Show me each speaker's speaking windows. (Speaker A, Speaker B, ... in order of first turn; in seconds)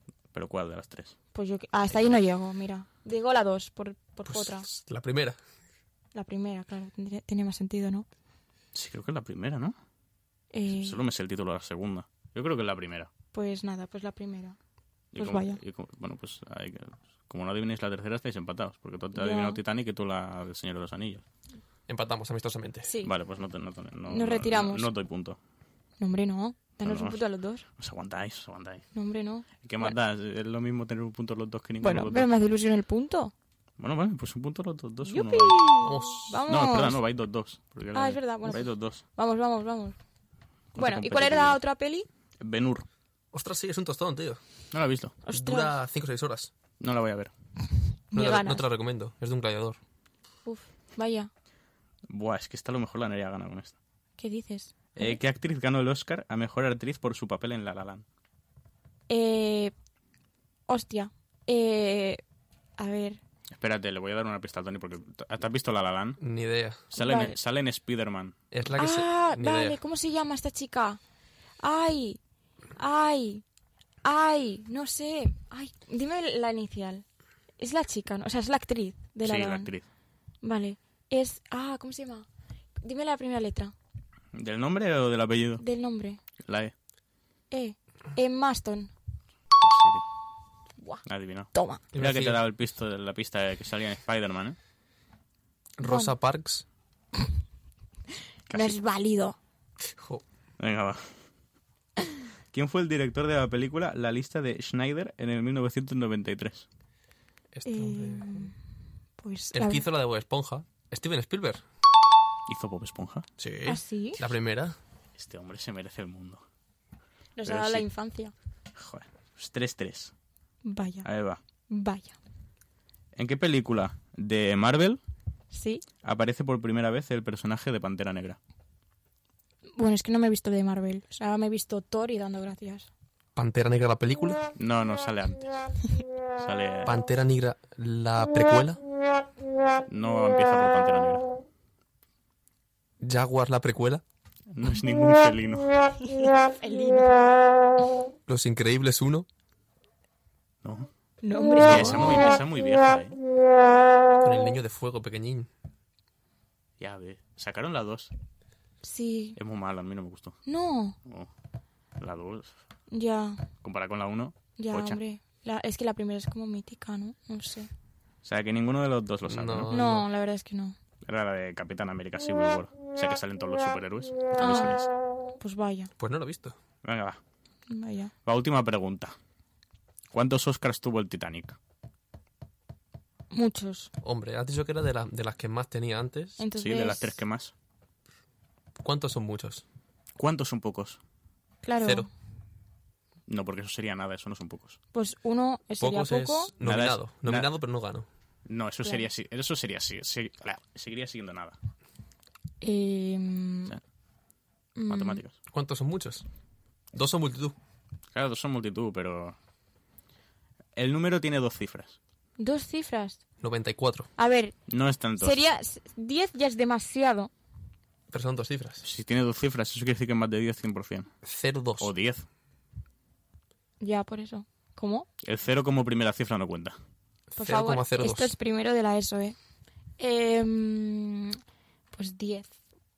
Speaker A: 0.3-1.1, 8.7-9.8, 10.7-13.1, 15.1-21.2, 23.0-25.4, 26.8-27.2, 27.8-28.9, 29.6-32.3, 33.8-35.6, 36.5-39.0, 40.7-41.6, 42.4-42.9, 44.7-45.1, 46.8-47.3, 52.1-53.8, 55.0-58.0, 63.5-66.2, 66.9-68.3, 79.2-79.8, 84.3-85.6, 86.4-86.7, 89.6-90.0, 91.0-94.6, 98.5-98.7, 100.6-101.1, 102.5-106.7, 112.5-113.2, 115.1-116.4, 117.4-117.8, 118.7-120.1, 121.0-121.4, 123.2-125.0, 126.0-128.4, 134.6-135.6, 136.4-137.0, 139.9-141.3, 144.5-145.8, 150.6-150.9, 151.6-153.2, 156.8-158.1, 159.3-160.4, 162.0-162.5, 163.6-165.0, 168.2-169.7, 171.0-174.9, 176.8-177.2, 178.2-179.1, 180.1-181.6, 186.6-187.5, 190.2-191.0, 193.3-194.8, 196.6-197.5, 198.4-201.6, 204.9-205.3, 208.1-209.3, 210.8-212.0, 214.7-215.4, 218.8-221.1, 221.8-222.2, 225.2-226.8
Speaker B: 1.3-4.7, 6.1-8.1, 10.5-11.0, 13.3-14.6, 15.2-15.6, 19.1-19.6, 22.8-23.1, 24.1-24.9, 26.0-27.6, 28.9-29.9, 31.8-33.3, 35.0-37.0, 37.9-40.0, 40.8-42.1, 45.2-45.8, 48.1-48.6, 50.4-51.3, 54.2-55.2, 59.1-59.7, 60.7-62.2, 62.8-63.2, 66.9-67.3, 68.8-71.0, 71.6-72.2, 72.8-73.4, 74.0-77.0, 77.6-79.7, 80.4-82.2, 82.8-83.7, 85.6-86.2, 87.5-88.9, 91.5-91.8, 95.8-96.1, 98.5-99.4, 107.6-108.5, 109.2-109.8, 113.7-114.2, 117.4-118.3, 120.6-121.0, 121.7-122.2, 125.5-125.8, 129.8-132.9, 146.0-147.2, 151.2-152.4, 158.8-159.4, 160.4-160.9, 162.9-163.4, 164.6-167.7, 169.7-170.8, 174.3-174.8, 175.4-175.9, 177.7-178.1, 183.3-183.9, 186.4-187.2, 191.6-192.1, 194.9-196.5, 202.6-203.8, 204.8-205.2, 212.4-213.2, 214.2-214.5, 215.2-217.3, 223.8-225.1, 227.4-229.4, 230.0-231.4, 231.9-232.5
Speaker C: 4.3-5.4, 21.9-22.9, 35.8-36.4, 43.3-44.4, 45.3-46.5, 48.1-49.8, 66.2-66.8, 68.5-69.8, 91.9-92.4, 95.8-96.6, 99.8-100.2, 107.5-108.5, 109.5-111.6, 113.4-114.8, 133.3-134.4, 136.8-138.8, 143.0-144.0, 148.3-149.3, 151.6-152.2, 154.2-155.5, 169.3-170.1, 176.0-176.6, 184.0-186.4, 188.8-189.6, 191.8-192.1, 195.8-198.1, 205.5-206.2, 206.9-207.6, 213.4-214.1, 218.1-218.8, 221.2-221.9, 227.3-228.3